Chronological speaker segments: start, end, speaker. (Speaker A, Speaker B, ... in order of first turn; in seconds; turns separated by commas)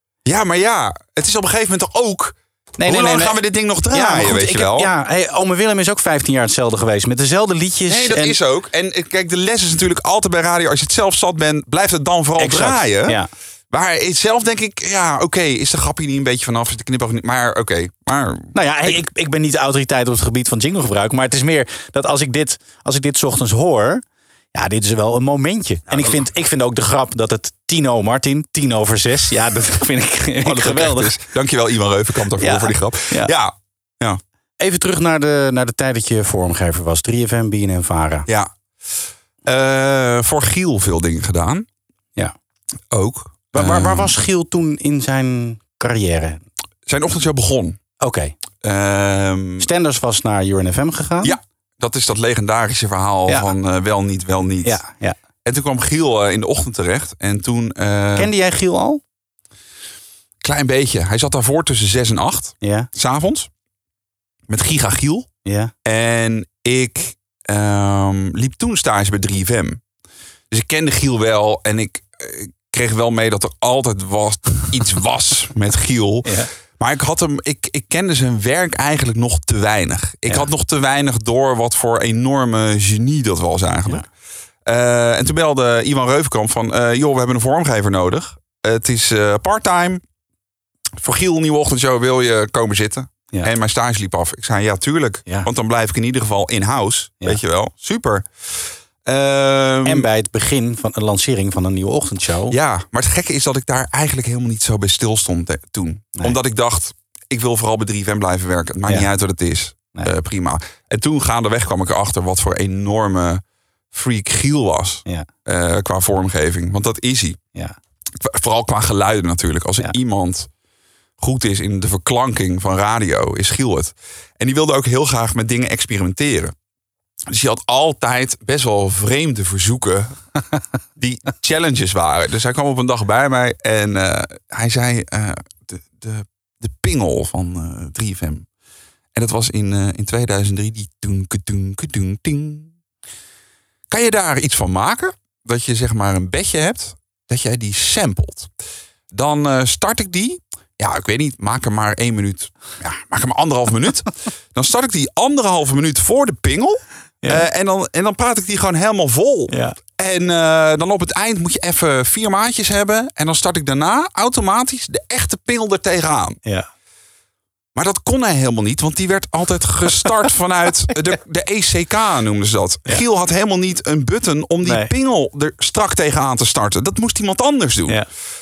Speaker A: 0.2-4.9, Speaker B: 2.8-8.4, Speaker A: 7.9-13.2, Speaker B: 12.4-13.3, Speaker A: 13.7-19.0, Speaker B: 18.5-24.0, Speaker B: 24.5-31.1, Speaker A: 25.9-26.2, Speaker A: 30.4-34.2, Speaker B: 32.4-33.3, Speaker B: 34.6-38.3, Speaker A: 39.5-41.7, Speaker A: 42.9-44.2, Speaker B: 43.5-46.4, Speaker A: 46.9-47.8, Speaker B: 48.0-48.4, Speaker A: 48.6-49.7, Speaker B: 49.6-51.4, Speaker A: 51.2-54.8, Speaker B: 54.6-55.2, Speaker A: 55.5-58.3, Speaker B: 58.2-59.0, Speaker A: 60.4-63.5, Speaker B: 62.6-62.9, Speaker A: 64.5-65.3, Speaker B: 65.5-65.7, Speaker A: 65.8-69.8, Speaker A: 70.5-84.1, Speaker B: 76.2-76.5, Speaker A: 84.7-90.0, Speaker A: 91.0-100.1, Speaker B: 99.8-102.5, Speaker A: 102.5-117.4, Speaker A: 118.2-120.5, Speaker A: 121.2-126.5, Speaker A: 127.3-130.2, Speaker A: 131.0-138.5, Speaker A: 139.2-142.7, Speaker A: 143.9-148.5, Speaker A: 149.1-166.4, Speaker B: 159.5-159.8, Speaker A: 167.8-178.1, Speaker B: 174.6-174.9